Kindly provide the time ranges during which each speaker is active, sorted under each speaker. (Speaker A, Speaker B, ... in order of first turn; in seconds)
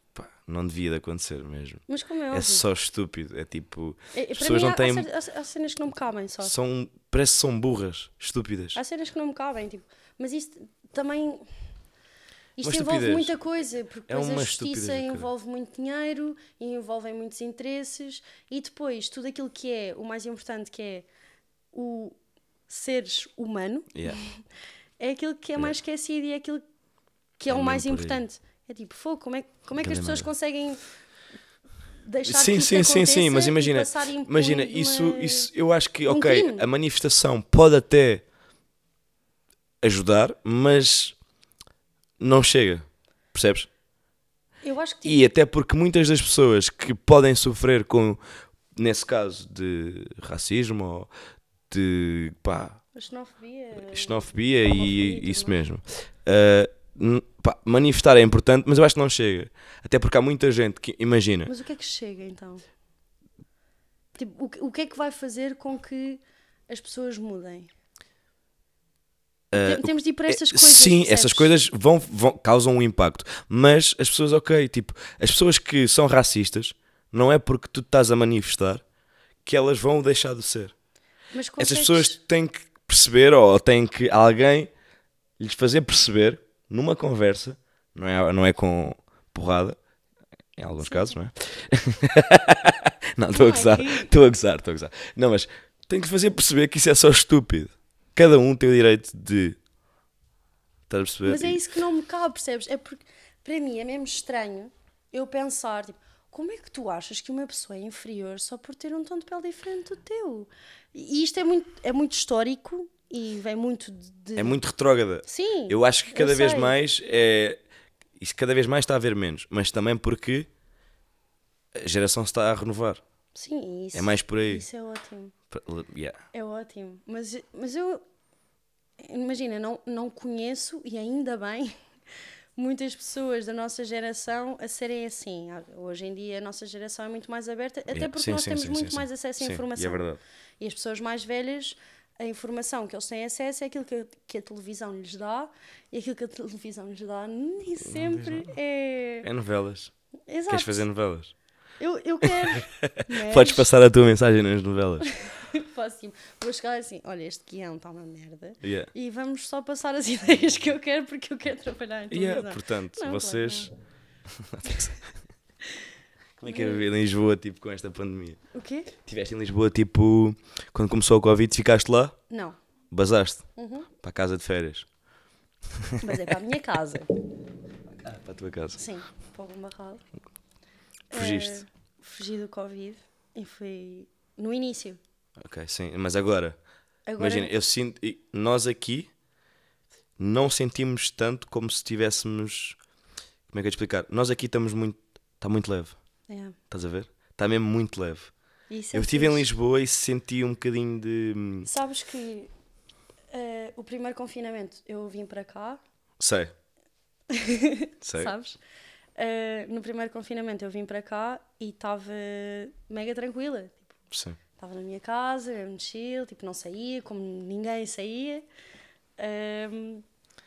Speaker A: 0.1-5.1, 6.4-8.8, 12.6-13.3, 14.1-15.3, 27.5-28.2, 29.8-30.3, 32.2-38.2, 39.8-41.2, 42.2-43.7, 45.0-48.2, 48.8-51.1, 51.7-52.8, 53.8-61.5, 69.5-78.8, 79.5-80.7, 81.6-84.7, 85.4-89.8, 90.6-99.6, 100.9-101.6, 114.4-117.6, 118.2-120.5, 121.8-123.0, 123.9-124.7, 125.5-126.2, 137.9-140.2, 147.9-148.5, 149.2-149.9, 150.5-151.3, 152.2-155.1, 158.6-158.9, 162.1-163.7, 164.3-165.1, 166.4-168.4, 169.0-172.2, 172.9-173.5, 174.0-174.9, 175.8-176.2, 177.9-178.8, 181.1-181.6, 185.4-186.6, 187.2-189.1, 190.2-192.8, 193.5-196.0, 196.7-198.3, 198.9-201.7, 206.2-206.5, 208.0-208.3, 214.1-214.4
Speaker B: 1.9-2.6, 4.1-6.5, 8.8-11.5, 12.6-21.1, 21.7-22.2, 22.7-24.4, 25.0-26.6, 27.4-30.8, 32.0-35.5, 36.1-36.7, 44.6-45.2, 53.0-55.6, 61.5-62.6, 64.2-67.7, 69.5-71.5, 81.3-82.2, 90.8-91.2, 93.3-94.1, 101.2-114.6, 115.2-116.8, 123.3-125.3, 126.3-128.0, 129.0-131.7, 132.6-140.0, 140.6-149.3, 150.3-150.8, 151.8-153.7, 155.0-163.7, 166.5-166.8, 168.5-168.9, 172.3-172.6, 173.6-173.9, 176.0-177.1, 178.8-180.1, 181.1-185.0, 187.1-187.5, 196.3-196.6, 198.7-199.5, 201.7-202.5, 203.3-205.8, 207.3-208.6, 209.2-213.9, 214.6-218.4, 219.2-220.0